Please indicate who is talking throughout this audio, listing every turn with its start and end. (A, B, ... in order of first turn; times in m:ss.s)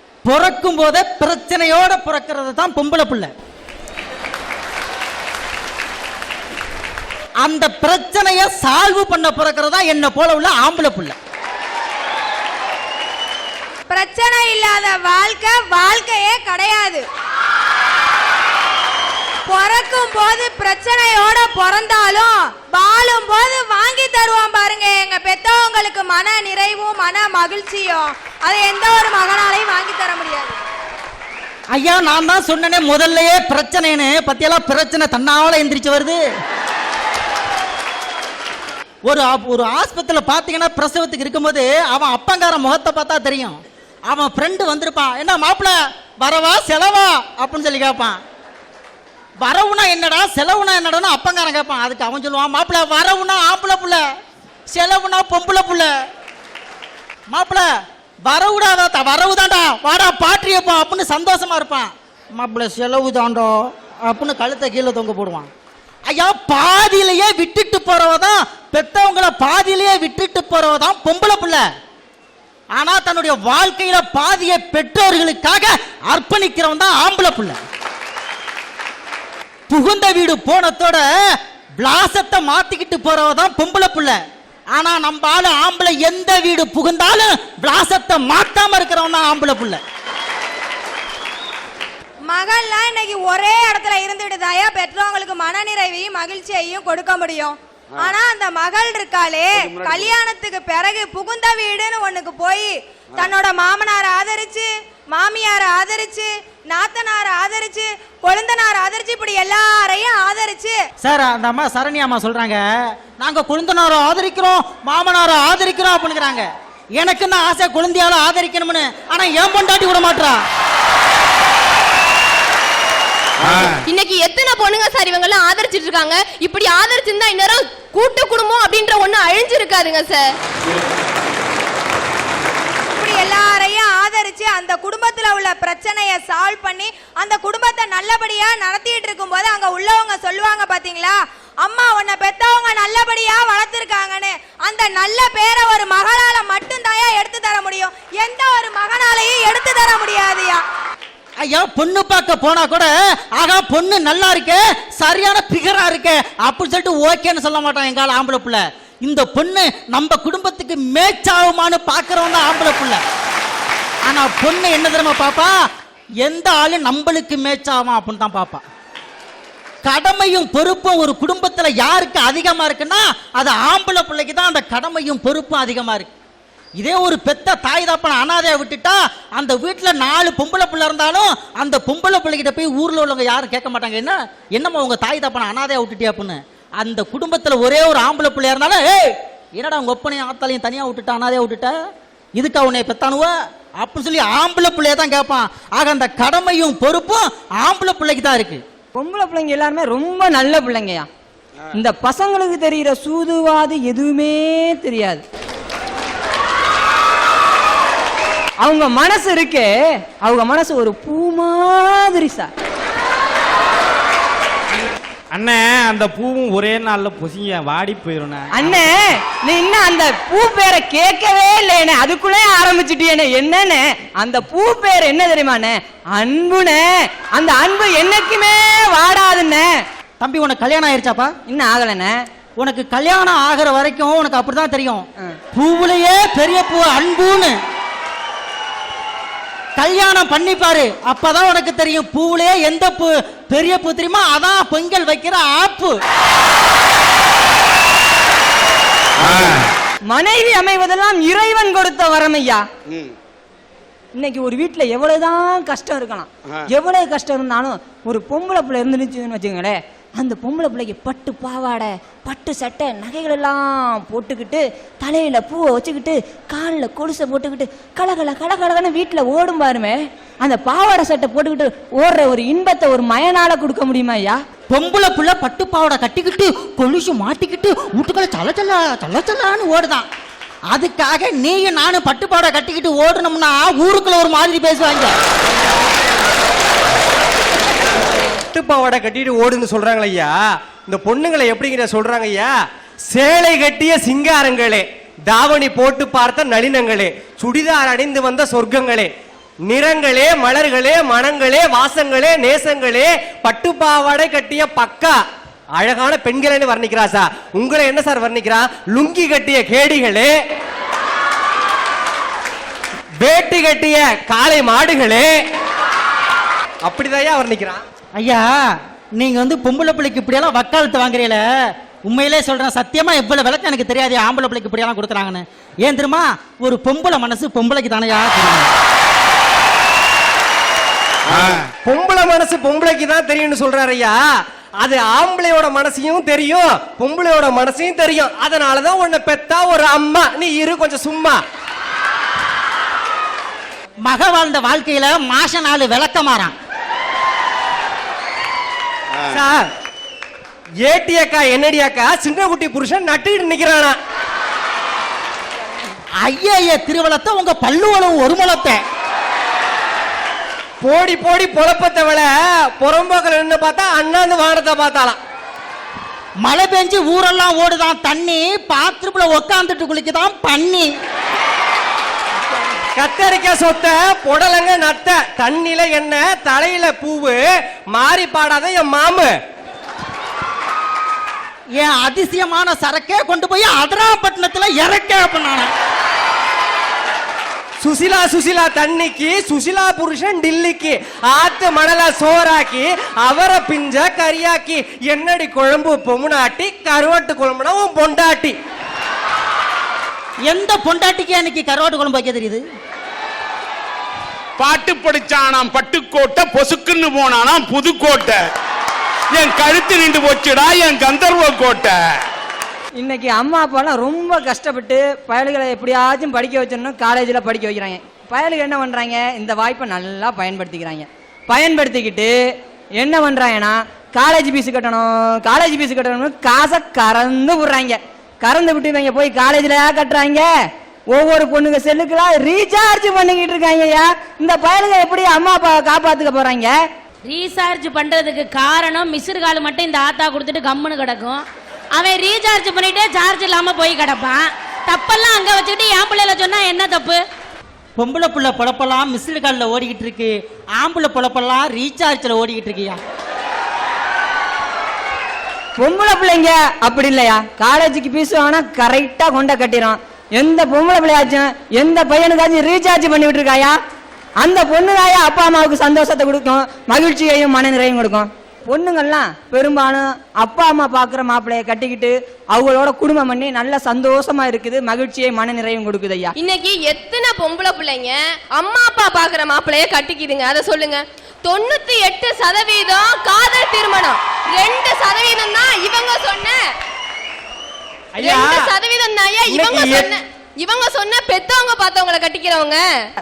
0:00.2-0:03.3 A
0:07.4-0:11.1 A
0:13.9-0:17.0 B
0:19.4-0:30.6 B
0:31.7-0:36.2 A
0:39.0-0:48.2 A
0:49.4-0:54.0 A
0:54.7-0:55.9 A
0:57.3-0:57.7 A
0:58.2-1:05.5 A
1:06.1-1:11.6 A
1:12.8-1:17.6 A
1:19.7-1:21.0 A
1:21.8-1:24.2 A
1:24.7-1:29.8 A
1:32.2-1:50.8 B
1:39.7-1:40.1 C
1:51.0-2:00.4 A
2:03.8-2:10.3 D
2:13.0-2:30.6 B
2:31.4-2:43.0 A
2:44.0-2:45.5 A
2:46.2-2:48.6 A
2:49.8-2:56.1 A
2:56.8-3:11.7 A
3:12.3-3:18.6 A
3:19.0-3:21.1 E
3:21.7-3:25.2 E
3:28.6-3:32.5 E
3:35.3-3:38.8 F
3:38.5-3:49.7 E
3:50.2-3:51.3 A
3:51.5-3:52.1 E
3:52.6-3:57.6 A
3:59.8-4:06.0 A
4:09.3-4:09.6 F
4:10.1-4:12.6 E
4:14.1-4:34.4 E
4:34.7-4:40.0 A
4:40.7-4:45.2 A
4:48.5-4:52.5 G
4:53.1-4:59.1 G
4:59.7-5:05.2 G
5:05.8-5:10.3 G
5:13.2-5:15.3 G
5:16.8-5:17.8 G
5:18.2-5:18.5 A
5:19.2-5:28.7 A
5:31.4-5:34.1 G
5:34.8-5:41.4 G
5:44.0-5:46.5 A
5:49.3-5:49.7 G
5:50.8-5:54.0 G
5:56.2-5:58.8 A
6:00.8-6:05.2 G
6:06.4-6:10.9 A
6:13.0-6:17.4 G
6:17.9-6:19.3 G
6:21.8-6:25.7 A
6:27.8-6:38.5 G
6:40.5-6:42.6 A
6:44.6-6:48.5 C
6:49.3-6:52.2 C
6:53.0-7:02.3 E
7:03.0-7:10.5 E
7:11.1-7:16.8 E
7:17.2-7:21.4 H
7:21.9-7:27.2 H
7:28.0-7:33.0 A
7:35.8-7:43.8 E
7:44.4-7:56.3 E
7:56.4-8:06.6 D
8:08.1-8:08.7 G
8:08.2-8:12.8 D
8:09.5-8:10.2 G